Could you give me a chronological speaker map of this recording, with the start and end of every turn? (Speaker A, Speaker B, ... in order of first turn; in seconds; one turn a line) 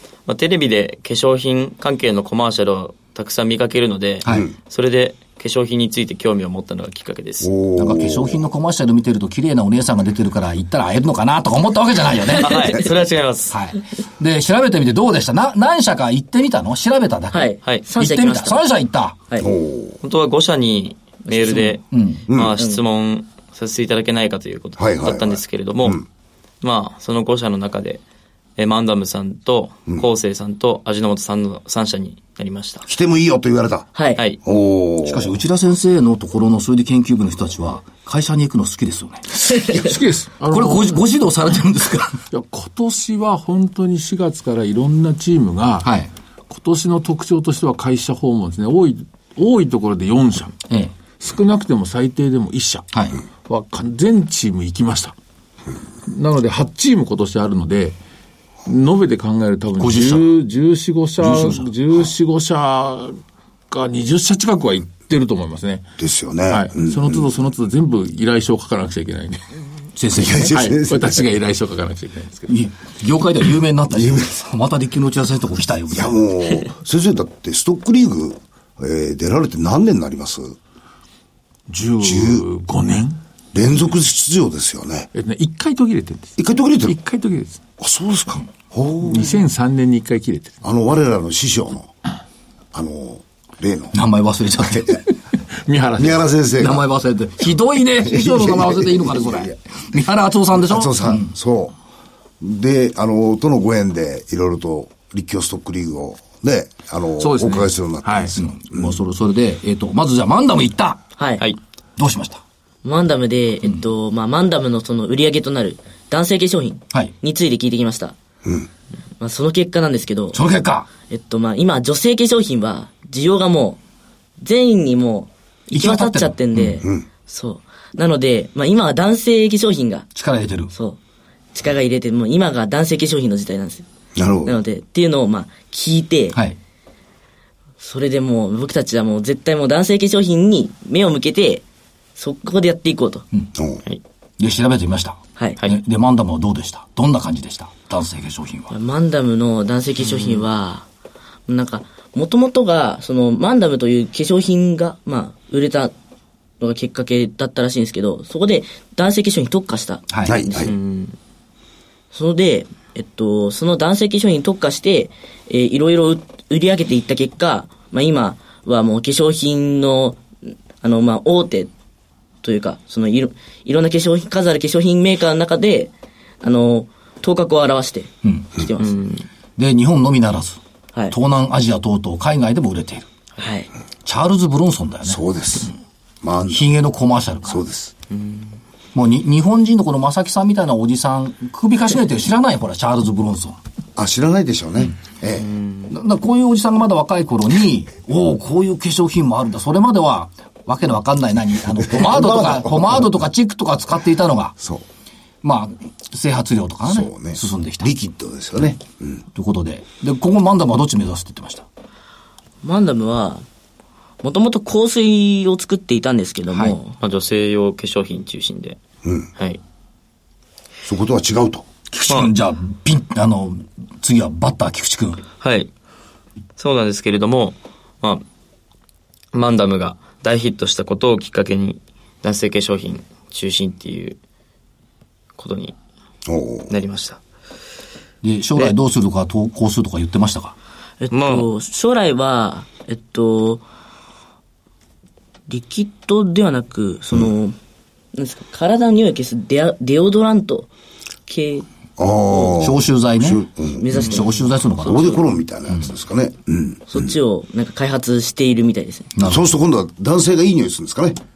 Speaker A: 0.3-7.5
Speaker B: 4.3-4.5
Speaker B: 7.4-8.4
Speaker C: 7.8-12.6
Speaker A: 12.4-13.5
Speaker D: 12.5-12.8
Speaker C: 13.5-19.2
Speaker D: 17.3-18.6
Speaker B: 19.4-20.0
Speaker A: 20.0-26.0
Speaker D: 21.2-21.8
Speaker C: 21.9-22.2
Speaker B: 22.3-22.6
Speaker B: 24.8-26.0
Speaker A: 26.6-28.0
Speaker A: 28.6-32.9
Speaker B: 32.9-33.9
Speaker D: 33.9-34.2
Speaker B: 34.4-35.3
Speaker C: 35.0-39.2
Speaker E: 39.8-41.0
Speaker C: 40.5-42.2
Speaker E: 42.3-45.9
Speaker C: 45.8-46.1
Speaker E: 46.5-50.6
Speaker E: 51.2-52.9
Speaker C: 52.9-53.2
Speaker E: 53.4-55.1
Speaker E: 56.0-58.0
Speaker E: 58.6-65.8
Speaker C: 59.8-60.3
Speaker C: 61.2-61.7
Speaker B: 66.0-67.2
Speaker E: 66.5-69.5
Speaker C: 70.0-70.6
Speaker B: 70.2-71.2
Speaker E: 70.5-72.5
Speaker C: 72.5-76.2
Speaker B: 73.9-74.3
Speaker B: 75.9-80.5
Speaker E: 81.7-83.2
Speaker B: 82.0-82.5
Speaker B: 83.5-85.1
Speaker E: 85.1-87.6
Speaker B: 86.4-87.0
Speaker B: 87.8-89.4
Speaker E: 89.0-90.6
Speaker B: 90.6-91.9
Speaker B: 92.7-94.0
Speaker C: 93.9-95.0
Speaker B: 94.6-95.0
Speaker E: 95.7-96.3
Speaker B: 96.0-96.8
Speaker C: 96.6-101.3
Speaker B: 98.0-99.6
Speaker B: 100.5-101.8
Speaker B: 102.4-108.9
Speaker E: 107.2-108.3
Speaker C: 108.3-111.0
Speaker D: 111.2-111.5
Speaker C: 112.0-112.4
Speaker D: 112.8-118.1
Speaker D: 119.2-120.4
Speaker C: 120.3-120.9
Speaker D: 121.1-123.8
Speaker D: 124.4-130.1
Speaker C: 125.7-126.8
Speaker C: 130.1-130.7
Speaker D: 130.7-131.0
Speaker D: 131.5-133.8
Speaker B: 134.1-134.6
Speaker D: 134.4-136.4
Speaker D: 137.8-141.6
Speaker D: 142.2-143.2
Speaker B: 143.5-143.8
Speaker C: 144.4-148.7
Speaker D: 148.7-150.9
Speaker A: 150.0-150.4
Speaker D: 151.5-155.9
Speaker D: 156.6-160.7
Speaker C: 160.1-160.4
Speaker B: 160.2-160.7
Speaker A: 160.6-161.2
Speaker D: 162.1-170.2
Speaker D: 170.8-171.7
Speaker D: 172.4-179.0
Speaker C: 178.2-178.5
Speaker A: 178.8-179.2
Speaker C: 179.6-180.6
Speaker C: 181.1-183.1
Speaker D: 183.4-183.7
Speaker C: 184.0-185.2
Speaker B: 185.1-186.7
Speaker C: 186.5-187.6
Speaker B: 187.5-187.9
Speaker A: 188.1-188.4
Speaker C: 188.9-193.6
Speaker B: 193.9-195.5
Speaker A: 195.4-195.9
Speaker C: 195.9-204.5
Speaker B: 201.8-203.1
Speaker B: 204.6-204.8
Speaker C: 205.4-207.9
Speaker B: 206.9-209.2
Speaker C: 209.3-211.6
Speaker D: 212.6-213.4
Speaker D: 214.2-216.9
Speaker C: 216.5-216.8
Speaker A: 217.0-218.8
Speaker B: 219.0-219.3
Speaker B: 220.8-221.7
Speaker C: 221.9-225.2
Speaker A: 225.4-225.7
Speaker A: 226.6-228.2
Speaker A: 229.3-234.2
Speaker A: 235.4-235.8
Speaker B: 236.3-236.7
Speaker A: 236.7-237.2
Speaker C: 238.2-240.5
Speaker D: 241.0-243.6
Speaker A: 241.1-241.5
Speaker D: 245.5-247.6
Speaker D: 248.1-250.7
Speaker D: 251.3-251.7
Speaker B: 252.0-254.0
Speaker C: 252.6-255.2
Speaker D: 253.8-255.2
Speaker B: 254.8-257.1
Speaker D: 256.9-259.1
Speaker C: 259.1-259.5
Speaker B: 259.2-261.2